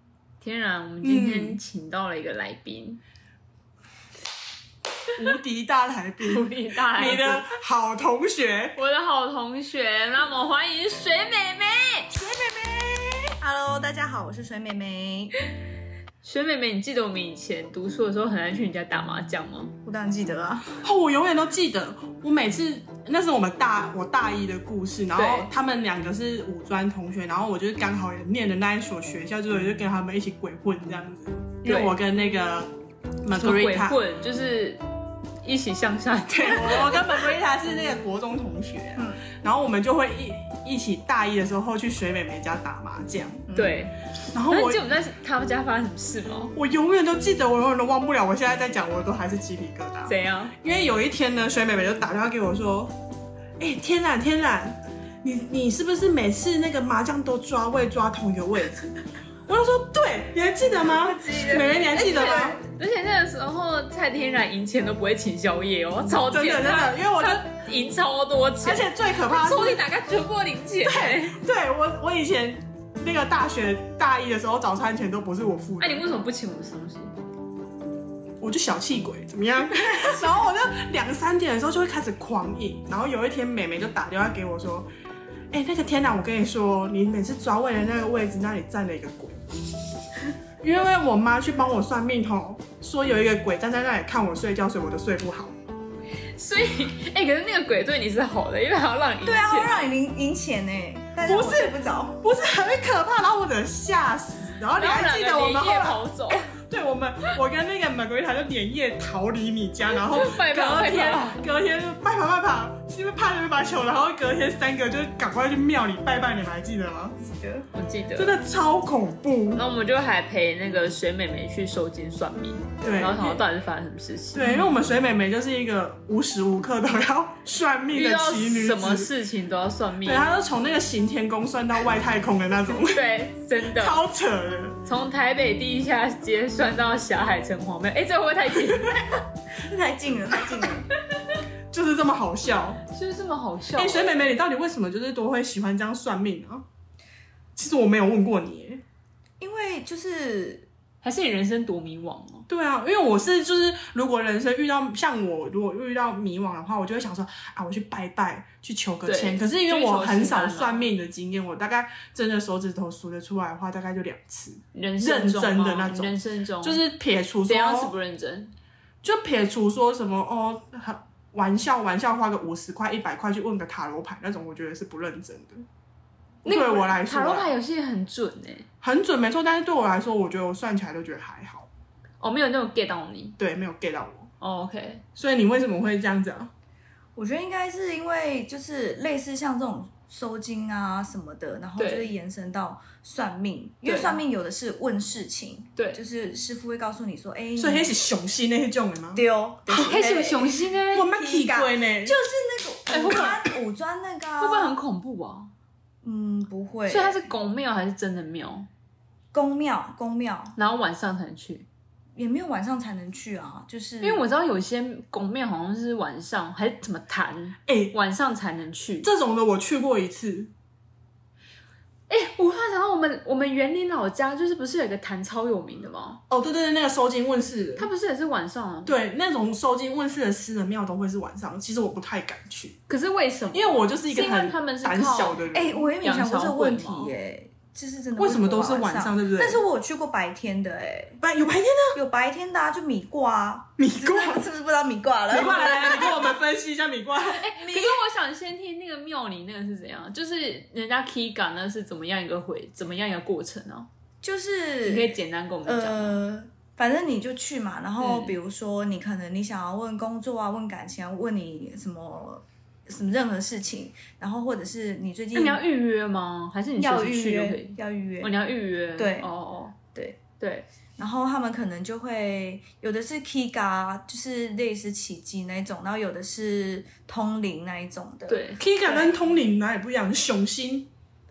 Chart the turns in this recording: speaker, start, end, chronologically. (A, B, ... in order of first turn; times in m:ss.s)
0:00.4-0:03.0 A
0:01.0-0:01.6 B
0:05.1-0:08.8 B
0:06.2-0:07.4 A
0:08.8-0:12.1 A
0:12.1-0:15.3 C
0:16.2-0:19.7 A
0:19.8-0:20.7 C
0:20.8-0:32.7 B
0:25.1-0:25.5 A
0:31.6-0:31.9 A
0:33.2-0:34.0 B
0:33.3-0:34.8 A
0:35.4-0:37.2 A
0:36.3-0:43.4 B
0:43.5-0:43.8 C
0:43.5-0:43.9 A
0:44.3-0:44.8 B
0:44.4-0:46.5 A
0:46.5-0:52.9 B
0:50.1-0:50.5 A
0:53.6-0:59.0 B
0:59.5-1:02.6 B
1:01.0-1:02.6 C
1:01.3-1:11.4 A
1:06.1-1:07.4 B
1:08.6-1:09.8 B
1:10.8-1:16.0 B
1:15.8-1:17.1 A
1:18.4-1:24.9 B
1:25.5-1:29.4 B
1:30.6-1:35.6 B
1:36.4-1:39.9 A
1:39.2-1:42.2 C
1:41.2-1:57.2 B
1:44.8-1:46.5 A
1:49.9-1:51.4 A
1:57.2-1:57.7 C
1:57.7-1:58.3 A
1:58.2-1:59.6 B
1:59.5-2:04.7 A
2:02.8-2:03.4 B
2:04.3-2:09.1 B
2:07.9-2:10.2 A
2:10.0-2:13.0 B
2:12.9-2:14.0 A
2:13.7-2:14.8 B
2:14.8-2:19.1 A
2:19.6-2:20.9 C
2:21.7-2:22.8 B
2:22.9-2:24.3 A
2:23.8-2:26.6 B
2:27.6-2:28.8 B
2:29.4-2:30.7 C
2:31.0-2:32.5 A
2:32.5-2:47.9 B
2:39.0-2:40.9 A
2:44.7-2:46.8 A
2:47.5-2:48.5 A
2:49.0-2:55.6 B
2:56.4-2:57.5 B
2:56.4-2:58.7 A
2:58.8-3:01.7 B
3:02.2-3:03.4 A
3:03.4-3:04.3 B
3:04.4-3:05.0 A
3:05.2-3:06.5 B
3:07.2-3:18.0 C
3:11.8-3:12.1 A
3:13.8-3:14.2 A
3:15.8-3:16.0 A
3:17.6-3:20.0 B
3:19.1-3:20.5 C
3:19.8-3:21.1 A
3:20.9-3:22.2 B
3:21.1-3:24.7 C
3:22.9-3:23.4 A
3:24.4-3:25.5 A
3:26.0-3:27.2 C
3:26.9-3:28.7 A
3:29.3-3:30.5 C
3:30.6-3:31.7 A
3:32.2-3:34.2 C
3:34.0-3:39.1 A
3:37.7-3:37.9 B
3:39.0-3:40.5 B
3:42.1-3:46.2 A
3:46.3-3:47.9 B
3:47.8-3:48.9 A
3:48.8-3:52.8 B
3:52.9-3:57.1 A
3:53.5-3:55.8 B
3:55.5-4:01.2 C
3:58.2-3:59.6 B
4:01.2-4:02.0 B
4:01.9-4:06.4 C
4:03.8-4:04.4 B
4:05.3-4:07.5 B
4:07.2-4:13.9 A
4:07.6-4:08.0 C
4:14.2-4:15.1 C
4:14.8-4:16.2 A
4:15.6-4:25.6 C
4:18.0-4:18.4 A
4:25.3-4:29.8 A
4:26.8-4:28.3 C
4:29.0-4:29.3 C
4:29.9-4:30.2 C
4:30.4-4:30.6 A
4:31.0-4:38.4 C
4:38.3-4:39.1 A
4:38.6-4:40.9 B